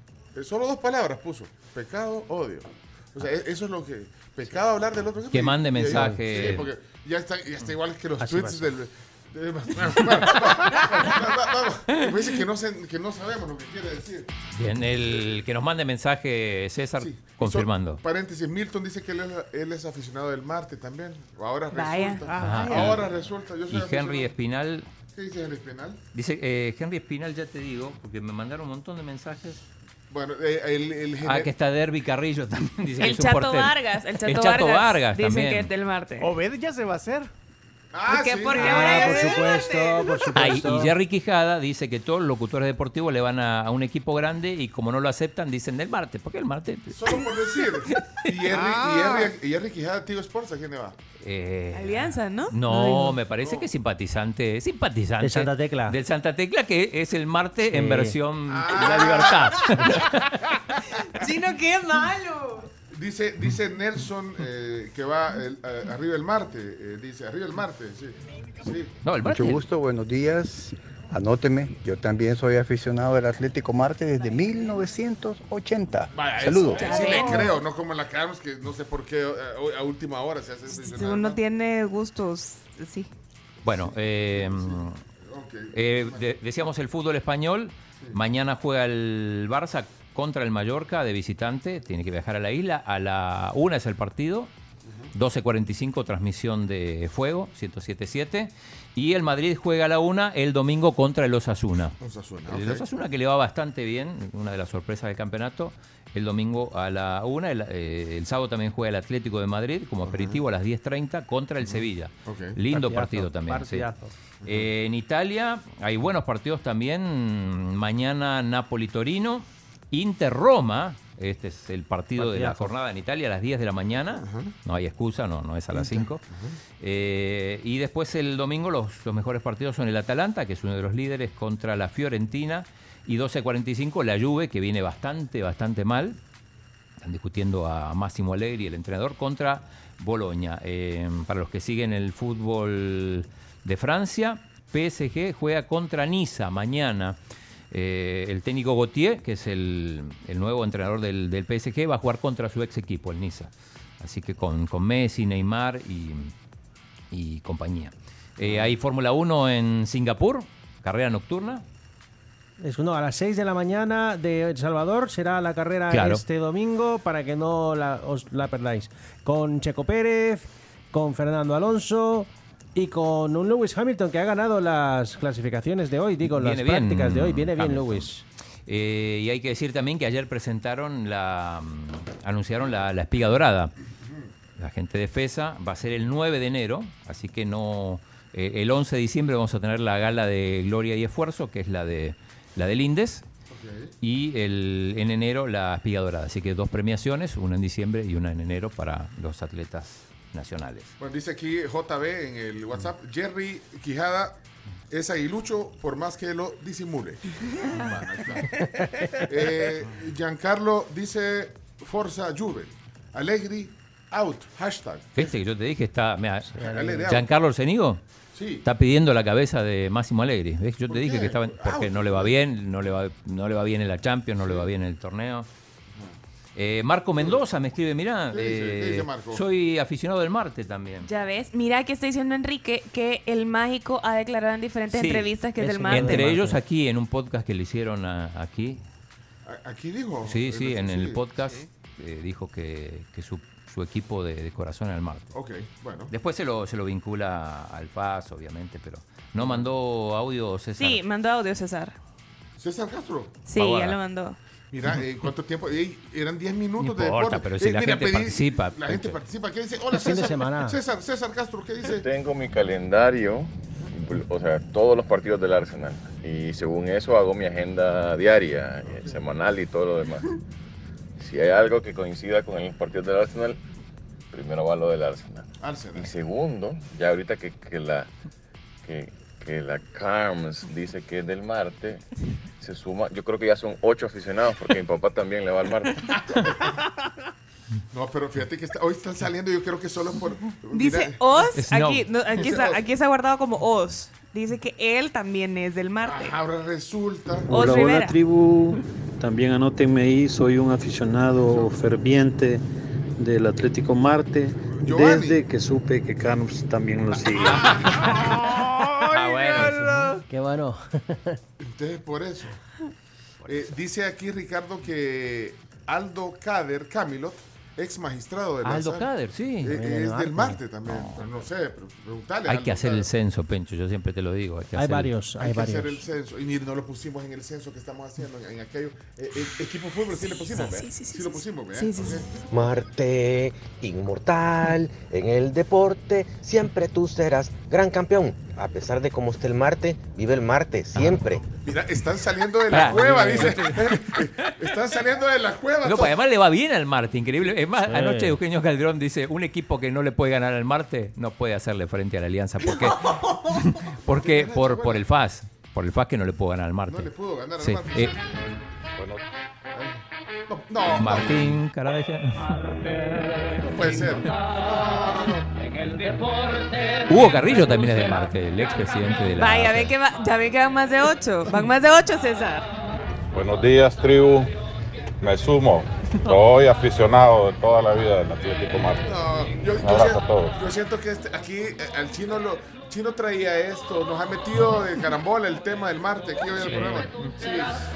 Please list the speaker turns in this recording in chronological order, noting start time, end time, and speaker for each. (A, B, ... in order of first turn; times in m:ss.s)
0:00.4-0:14.3 A
0:05.3-0:06.7 B
0:08.2-0:08.7 C
0:14.5-0:18.0 B
0:17.0-0:24.3 A
0:21.7-0:22.3 D
0:22.3-0:23.0 E
0:22.3-0:23.1 B
0:23.7-0:24.9 B
0:25.1-0:26.0 A
0:26.1-0:29.6 B
0:30.1-0:31.5 A
0:31.2-0:35.7 B
0:33.0-0:36.3 D
0:36.2-0:37.3 E
0:37.9-0:39.4 A
0:38.1-0:40.4 D
0:38.6-0:40.9 C
0:40.3-0:47.3 B
0:46.9-0:51.0 A
0:48.5-0:49.3 E
0:51.2-1:00.5 B
0:51.7-0:53.2 D
0:55.2-0:56.0 C
0:57.7-0:58.2 C
0:58.5-0:59.7 A
1:01.2-1:02.7 D
1:02.9-1:08.9 A
1:09.0-1:09.6 B
1:09.2-1:17.5 F
1:16.1-1:21.4 A
1:16.7-1:17.6 D
1:20.7-1:23.1 D
1:23.6-1:25.0 B
1:23.6-1:26.2 A
1:25.7-1:34.5 B
1:35.1-1:53.9 B
1:42.0-1:42.8 A
1:50.0-1:50.4 A
1:51.6-1:52.6 A
1:52.7-1:54.1 C
1:54.4-1:54.7 A
1:54.4-2:06.2 B
2:02.2-2:02.7 C
2:04.2-2:04.5 A
2:05.7-2:06.6 A
2:06.8-2:16.2 B
2:17.0-2:27.2 B
2:27.7-2:36.3 B
2:37.1-2:41.6 B
2:42.6-2:58.2 C
2:45.9-2:46.2 B
2:56.3-2:58.1 B
2:58.7-3:03.7 B
3:04.6-3:13.2 B
3:13.5-3:13.9 A
3:14.0-3:20.9 B
3:21.0-3:24.4 A
3:24.9-3:28.6 A
3:29.3-3:35.4 A
3:35.2-3:38.0 B
3:36.5-3:37.1 C
3:36.6-3:37.3 A
3:38.4-3:38.6 A
3:38.6-3:45.5 B
3:40.9-3:42.4 A
3:44.4-3:44.7 A
3:46.6-3:51.1 B
3:48.3-3:49.4 A
3:51.0-3:56.3 D
3:54.9-3:55.4 B
3:55.6-3:56.6 C
3:55.9-3:58.8 B
3:59.4-4:01.3 A
4:00.2-4:05.4 B
4:05.3-4:06.1 A
4:06.1-4:11.0 B
4:09.4-4:09.7 A
4:10.8-4:12.0 D
4:12.6-4:13.4 A
4:13.5-4:14.4 D
4:13.6-4:14.0 B
4:14.7-4:22.1 A
4:16.8-4:19.2 B
4:19.9-4:20.8 C
4:21.9-4:30.3 G
4:28.9-4:29.2 A
4:31.2-4:33.6 G
4:34.3-4:38.1 G
4:35.6-4:36.1 A
4:38.8-4:42.0 G
4:42.6-4:46.0 G
4:46.3-4:46.7 A
4:47.9-4:51.2 A
4:50.7-4:56.4 D
4:51.6-4:52.1 B
4:52.3-4:52.8 A
4:56.0-4:57.5 A
4:57.5-5:02.6 H
4:57.5-4:58.2 D
5:01.4-5:01.7 A
5:03.2-5:07.9 H
5:04.6-5:05.4 A
5:07.1-5:08.2 A
5:08.6-5:09.0 E
5:09.1-5:10.2 B
5:10.3-5:11.4 C
5:11.6-5:12.6 A
5:13.4-5:13.8 B
5:13.5-5:19.1 A
5:18.6-5:19.8 B
5:19.6-5:23.1 A
5:19.7-5:20.6 C
5:20.9-5:21.3 B
5:22.4-5:25.1 B
5:24.8-5:26.0 C
5:25.4-5:32.3 A
5:30.5-5:32.4 D
5:32.5-5:41.5 I
5:41.0-5:41.3 B
5:41.5-5:46.1 A
5:42.7-5:44.5 B
5:42.8-5:43.6 C
5:45.8-5:58.2 B
5:47.8-5:48.4 C
5:54.1-5:55.1 A
5:56.9-5:58.6 A
5:59.7-6:01.6 A
6:00.9-6:02.6 B
6:03.6-6:05.5 A
6:07.1-6:09.9 B
6:09.4-6:12.6 D
6:13.3-6:14.5 J
6:15.2-6:19.0 J
6:19.0-6:27.8 A
6:19.8-6:20.6 J
6:26.7-6:27.1 C